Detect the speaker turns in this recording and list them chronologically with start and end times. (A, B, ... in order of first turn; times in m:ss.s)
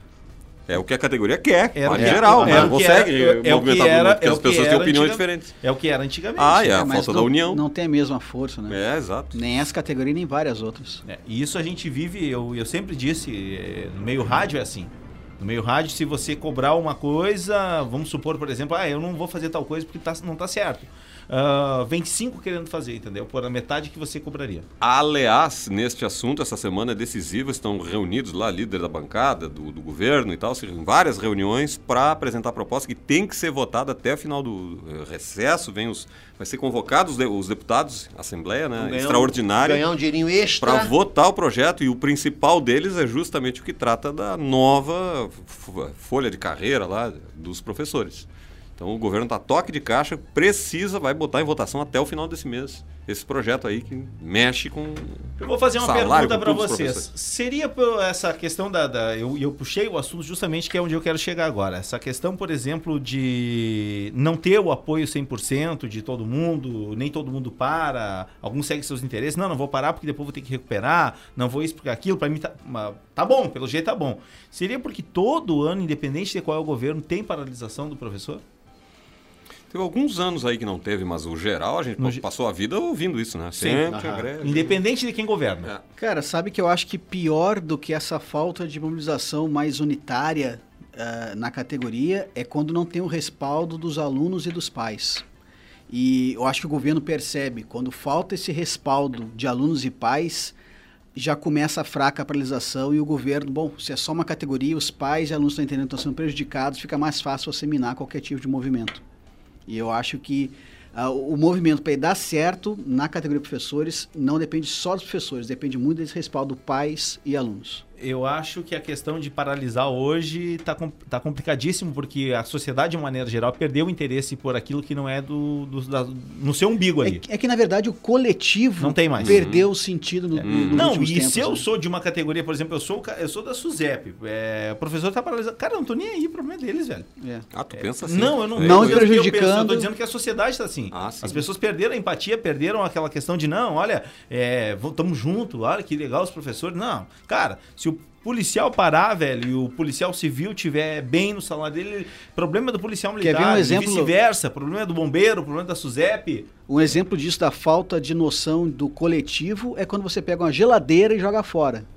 0:00.7-0:05.5 A
0:01.8-0:06.8 B
0:01.9-0:02.7 C
0:06.4-0:07.6 A
0:06.7-0:08.8 D
0:08.7-0:09.4 A
0:09.3-0:11.0 D
0:11.0-0:24.7 B
0:24.8-0:39.8 A
0:38.8-0:40.9 C
0:40.6-0:57.1 A
0:55.4-1:18.4 B
1:19.7-1:24.8 A
1:22.0-1:22.2 B
1:23.6-1:25.7 B
1:23.9-1:24.6 C
1:26.0-1:35.2 D
1:35.9-1:40.5 D
1:41.2-1:49.0 D
1:49.7-1:57.8 D
1:58.0-2:07.2 B
2:07.0-2:11.6 D
2:08.8-2:09.4 B
2:09.2-2:09.7 A
2:10.4-2:17.1 B
2:10.4-2:10.9 A
2:17.2-2:17.5 D
2:17.5-2:19.0 A
2:17.7-2:36.5 B
2:18.6-2:19.9 D
2:20.9-2:21.4 A
2:33.2-2:34.1 D
2:36.7-2:41.9 D